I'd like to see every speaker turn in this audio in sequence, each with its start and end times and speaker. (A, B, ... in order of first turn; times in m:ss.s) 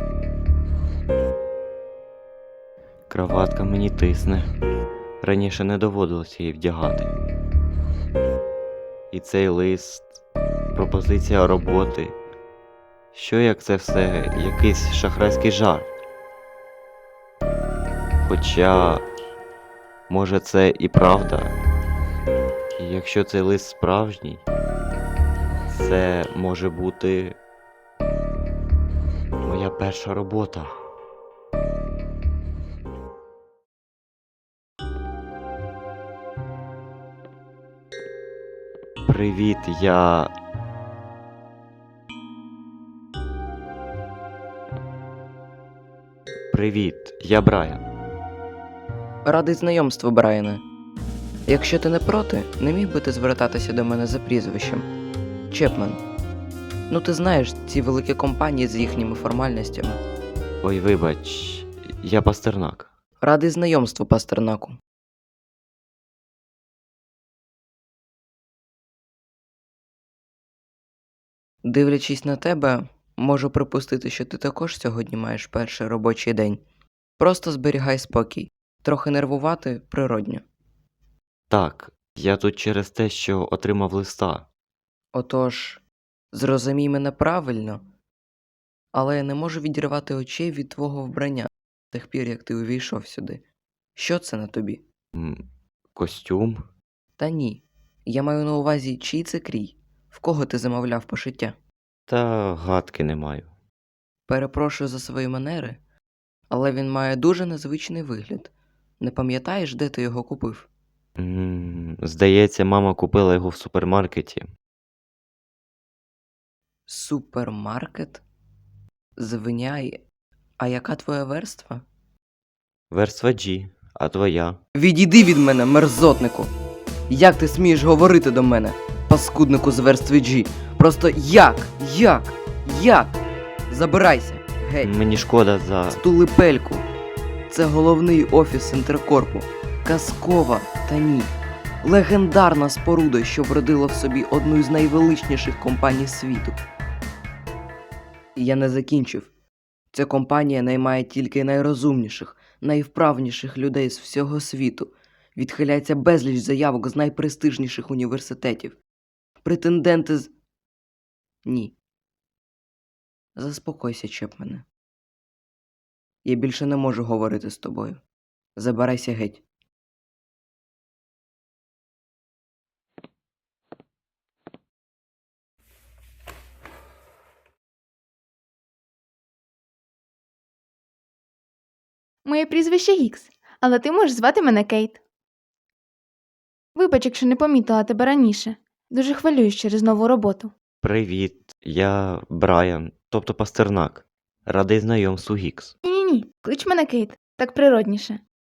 0:03.1-0:04.5 A
0:05.2-0:07.1 A
0:09.1-0:10.1 A
0:10.8-0:12.2 A
0:13.1-0:15.9 A
0:18.2-0:19.0 A
0:20.1-0:21.5 A
0:22.8-0:24.4 A
0:25.7-0:27.4 A
0:29.4-0:30.8 A
0:39.1-0:40.3 A
0:46.5-0:47.8 A
0:49.2-0:50.6 B
0:51.5-0:54.9 B
0:55.5-0:56.0 B
0:56.9-1:00.0 B
1:00.6-1:02.9 A
1:03.2-1:04.8 B
1:11.6-1:16.6 B
1:17.2-1:20.4 B
1:21.5-1:24.5 A
1:25.1-1:27.8 B
1:28.9-1:33.4 B
1:34.0-1:34.8 B
1:35.2-1:35.4 A
1:36.0-1:36.6 A
1:37.2-1:41.6 B
1:42.1-1:43.5 A
1:44.3-1:45.8 B
1:46.5-1:50.7 B
1:51.2-1:54.4 A
1:56.9-1:58.2 B
1:59.2-2:00.0 B
2:00.6-2:01.8 B
2:02.9-2:04.6 A
2:04.7-2:06.5 B
2:07.1-2:13.2 B
2:13.7-2:14.9 B
2:14.8-2:16.0 A
2:15.9-2:16.9 B
2:17.5-2:26.6 B
2:28.4-2:29.3 B
2:29.9-2:38.8 B
2:39.4-2:40.3 B
2:41.4-2:41.8 B
2:43.4-2:44.6 B
2:46.2-2:48.0 B
2:48.6-2:49.4 B
3:02.2-3:05.0 C
3:06.8-3:10.5 C
3:10.8-3:15.7 A
3:15.8-3:18.2 C